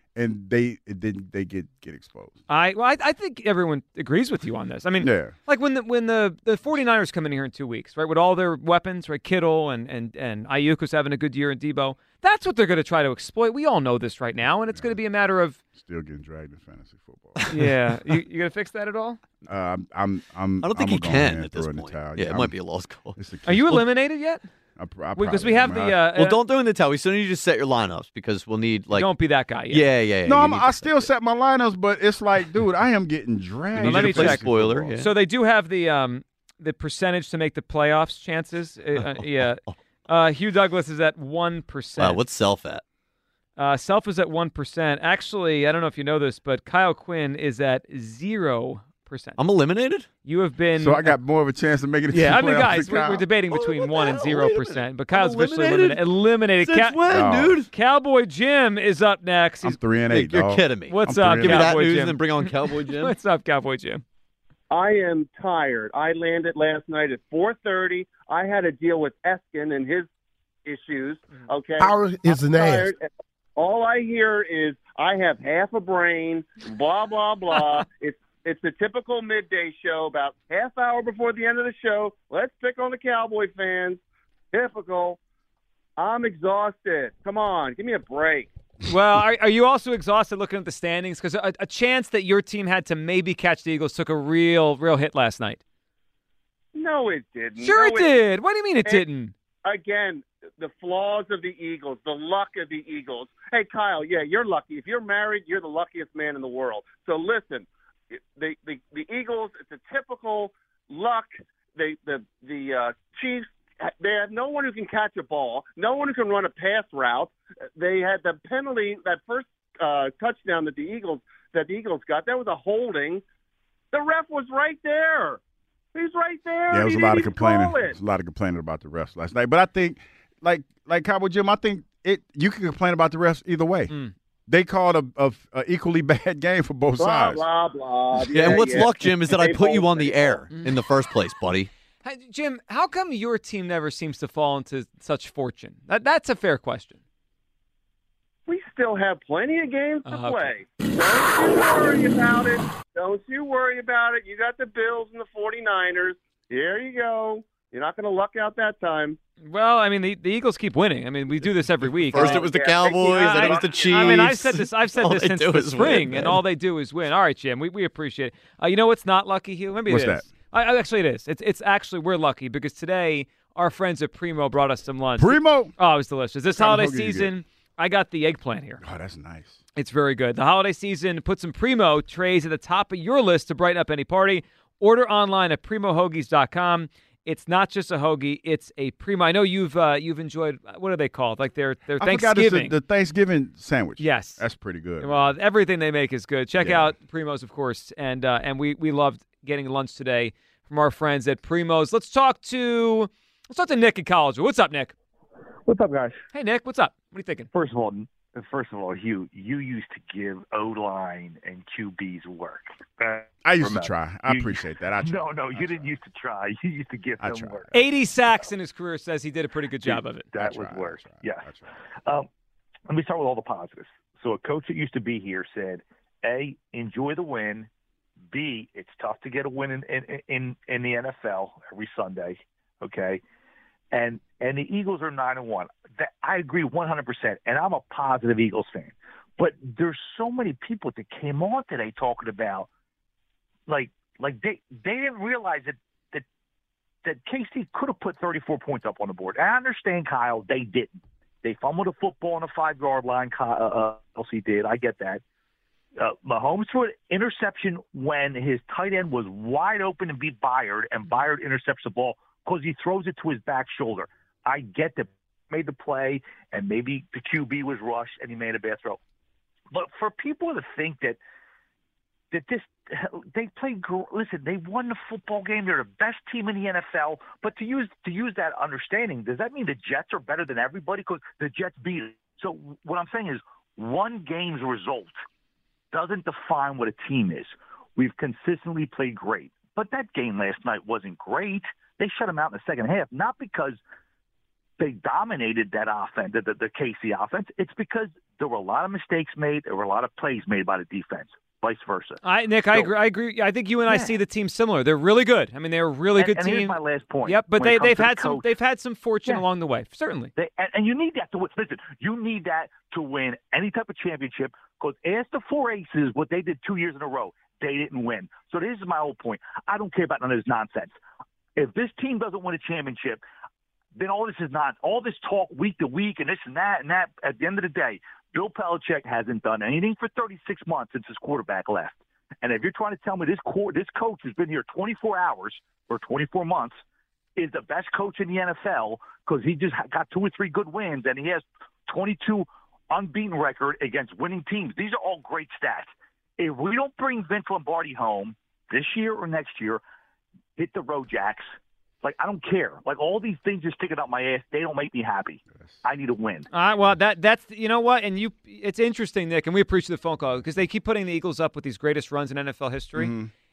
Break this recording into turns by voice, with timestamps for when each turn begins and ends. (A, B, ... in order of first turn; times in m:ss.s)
0:00.1-0:02.4 A
0:02.5-0:15.6 B
0:05.0-0:05.3 A
0:14.7-0:15.0 A
0:15.7-0:17.5 A
0:17.5-0:19.2 B
0:19.5-0:22.6 A
0:20.6-0:23.2 C
0:23.2-0:23.9 A
0:23.4-0:24.5 B
0:24.8-0:26.0 A
0:25.1-0:26.4 B
0:26.1-0:31.1 C
0:28.9-0:29.8 B
0:30.2-0:35.0 A
0:33.7-0:35.1 C
0:33.8-0:42.2 B
0:39.0-0:39.2 C
0:42.0-0:42.8 C
0:43.6-0:49.4 B
0:49.4-0:50.1 C
0:50.2-0:51.2 B
0:50.8-0:53.2 A
0:52.1-0:57.0 B
0:53.5-0:56.0 C
0:56.6-0:57.7 C
0:57.1-0:57.6 A
0:57.7-0:59.8 B
0:59.6-1:01.8 A
1:00.1-1:03.1 C
1:00.9-1:04.0 B
1:04.7-1:10.1 D
1:10.6-1:24.0 D
1:24.5-1:25.2 D
1:26.0-1:28.5 D
1:28.9-1:35.6 B
1:36.7-1:38.2 D
1:37.6-1:39.3 B
1:39.6-2:03.2 D
2:03.9-2:05.4 D
2:05.9-2:08.0 D
2:06.7-2:13.9 A
2:14.5-2:17.4 A
2:17.0-2:20.5 D
2:18.3-2:21.7 C
2:22.0-2:27.0 B
2:28.5-2:39.2 D
2:30.0-2:30.5 B
2:39.4-2:42.5 B
2:42.1-2:46.4 C
2:42.1-2:44.3 D
2:43.1-2:58.8 B
2:49.9-2:50.3 A
2:55.2-2:55.7 A
2:56.5-2:57.3 A
2:58.8-2:59.6 A
2:59.8-3:12.8 B
3:12.0-3:15.3 A
3:14.0-3:14.4 B
3:15.0-3:24.9 B
3:16.6-3:16.9 A
3:25.6-3:26.2 D
3:26.3-3:27.5 B
3:27.5-3:37.7 E
3:33.4-3:35.9 A
3:37.2-3:37.9 A
3:37.7-3:40.3 B
3:39.8-3:41.4 E
3:40.3-3:41.7 A
3:42.9-3:47.7 E
3:48.3-3:53.2 E
3:53.9-4:02.7 E
4:03.7-4:06.2 E
4:07.0-4:15.2 E
4:16.0-4:29.0 E
4:29.7-4:31.2 E
4:32.3-4:45.1 E
4:45.9-4:53.8 E
4:54.8-5:02.2 E
5:02.2-5:10.3 B
5:03.8-5:04.2 E
5:06.2-5:08.5 E
5:10.4-5:21.0 E
5:21.6-5:23.2 E
5:24.0-5:36.8 E
5:37.4-5:49.8 E
5:50.6-5:51.5 E
5:52.0-5:56.5 E
5:56.5-6:03.1 B
6:03.0-6:03.3 A